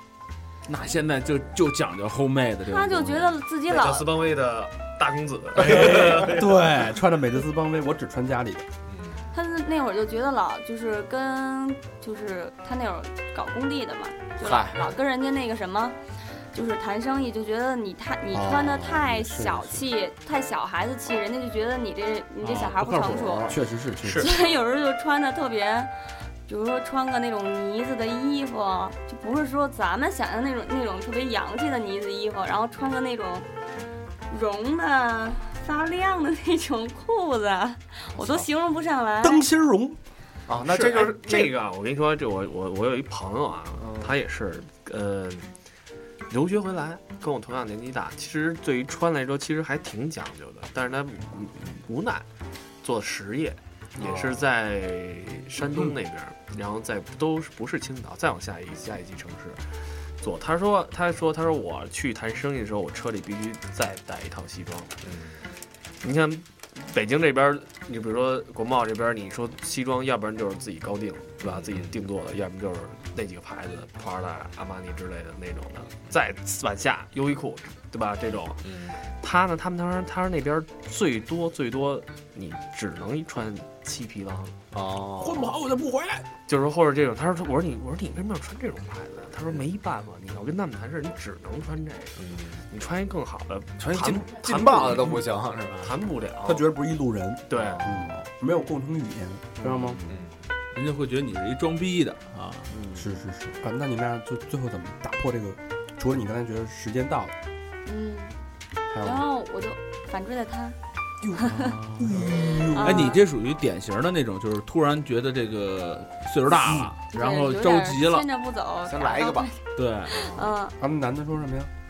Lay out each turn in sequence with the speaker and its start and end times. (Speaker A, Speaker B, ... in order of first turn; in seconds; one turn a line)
Speaker A: 0.7-3.4
Speaker B: 2.7-4.1
Speaker C: 3.7-6.6
Speaker D: 5.6-8.7
Speaker E: 8.9-9.3
Speaker B: 9.3-23.6
Speaker E: 14.4-14.9
Speaker D: 18.3-19.9
Speaker A: 22.4-23.6
Speaker D: 23.5-24.3
Speaker C: 24.0-24.4
Speaker B: 24.1-25.9
Speaker B: 26.5-33.5
Speaker B: 34.3-39.4
Speaker E: 38.1-38.5
Speaker D: 39.2-40.0
Speaker E: 40.5-41.6
Speaker C: 40.6-45.5
Speaker E: 43.8-44.1
Speaker C: 46.3-52.3
Speaker C: 52.8-65.0
Speaker E: 54.0-54.4
Speaker E: 65.0-65.4
Speaker C: 66.0-84.6
Speaker E: 71.4-72.0
Speaker E: 78.6-79.0
Speaker E: 84.7-85.5
Speaker D: 85.2-86.3
Speaker C: 86.5-96.7
Speaker E: 92.2-92.6
Speaker E: 93.8-96.0
Speaker D: 96.4-100.0
Speaker C: 97.5-97.9
Speaker E: 97.5-98.1
Speaker E: 100.0-100.3
Speaker A: 100.7-102.7
Speaker C: 102.7-103.0
Speaker D: 102.9-107.3
Speaker B: 107.8-108.4
Speaker D: 108.9-109.3
Speaker B: 109.0-110.8
Speaker D: 111.2-113.2
Speaker B: 111.4-111.8
Speaker A: 111.5-118.3
Speaker B: 112.6-113.2
Speaker B: 116.5-120.8
Speaker E: 118.8-119.5
Speaker A: 119.8-120.3
Speaker D: 120.8-121.7